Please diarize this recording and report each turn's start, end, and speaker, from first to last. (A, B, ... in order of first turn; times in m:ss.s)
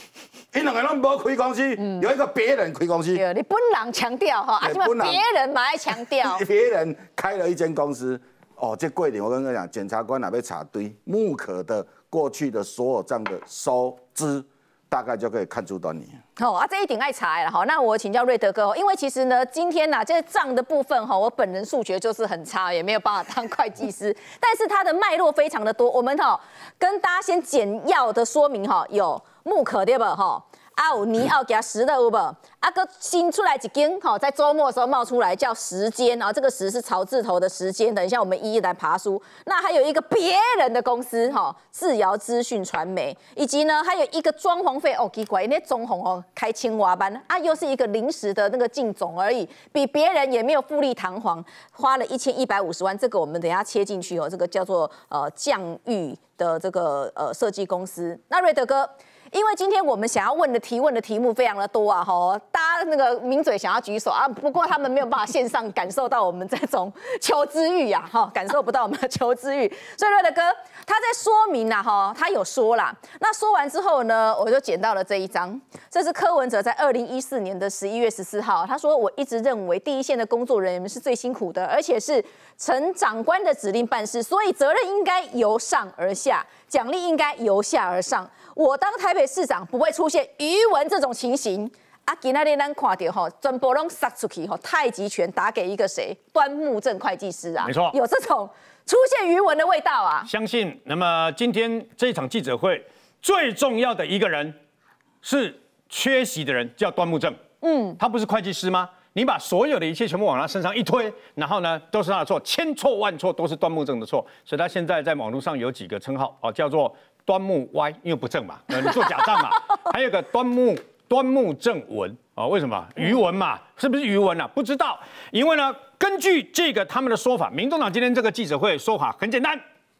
0:00.5-0:03.2 A
0:01.8-0:02.0 B
0:03.1-0:06.4 B
0:04.6-0:05.2 A
0:06.2-0:16.2 A
0:16.4-1:40.3 B
1:37.6-1:38.0 C
1:40.3-1:44.6 C
1:45.2-1:47.4 C
1:47.6-1:48.0 B
1:48.0-2:09.6 C